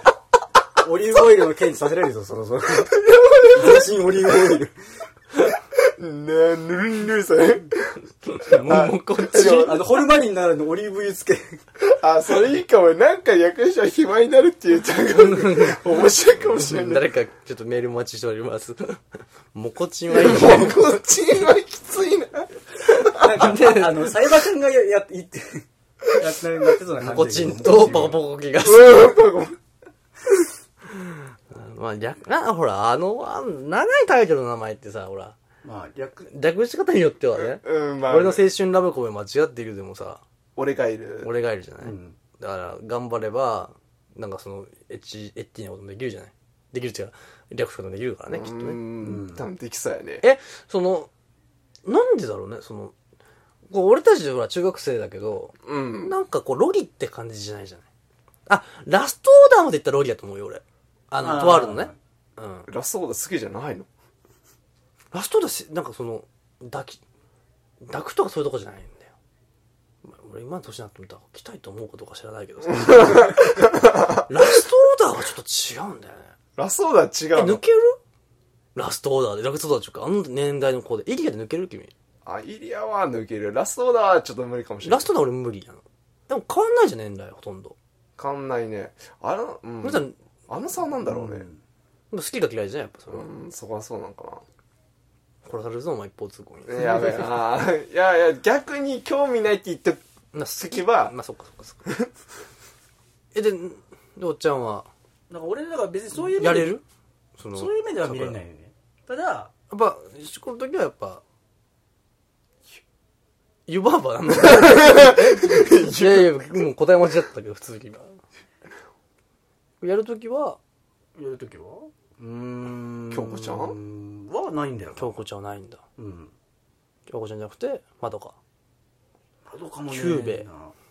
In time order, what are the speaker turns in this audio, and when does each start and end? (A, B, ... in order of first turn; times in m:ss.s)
0:00.8-0:04.7 A
0:02.9-0:03.8 B
0:05.7-0:09.9 B
0:08.2-0:09.8 C
0:09.3-0:11.6 A
0:11.8-0:17.0 B
0:15.1-0:19.0 C
0:19.5-0:20.8 C
0:20.1-0:23.3 B
0:23.0-0:28.2 A
0:23.4-0:24.0 C
0:27.0-0:29.2 C
0:28.6-0:29.6 B
0:30.9-0:35.4 C
0:35.6-0:36.3 A
0:36.3-0:40.2 C
0:37.4-0:38.4 B
0:40.6-0:41.3 B
0:41.2-0:48.8 C
0:41.8-0:42.2 A
0:48.3-0:50.2 B
0:49.0-0:49.4 A
0:50.2-0:51.1 C
0:51.8-0:52.9 C
0:53.7-0:57.8 C
0:55.6-0:56.1 B
0:58.5-1:02.7 C
1:01.2-1:02.0 A
1:02.7-1:03.9 B
1:05.1-1:07.0 C
1:07.8-1:09.1 C
1:10.0-1:13.7 C
1:12.8-1:14.2 B
1:14.3-1:16.3 C
1:16.6-1:17.6 B
1:17.3-1:18.0 C
1:18.7-1:21.9 C
1:22.2-1:25.1 B
1:24.8-1:27.8 C
1:28.2-1:31.4 B
1:29.8-1:30.1 C
1:31.0-1:31.6 A
1:32.1-1:33.3 C
1:33.1-1:34.4 B
1:35.4-1:37.3 C
1:36.7-1:40.0 B
1:40.3-1:41.8 C
1:40.6-1:41.1 B
1:43.3-1:44.9 C
1:45.3-1:46.8 A
1:46.3-1:46.8 C
1:47.4-1:48.4 C
1:47.5-1:49.5 A
1:49.7-1:51.2 C
1:53.7-1:58.2 C
1:54.4-1:56.3 B
1:59.8-2:00.6 C
2:01.1-2:05.2 A
2:03.1-2:03.8 B
2:05.0-2:05.8 C
2:06.0-2:06.3 A
2:07.1-2:08.4 C
2:09.5-2:10.7 A
2:09.9-2:10.4 C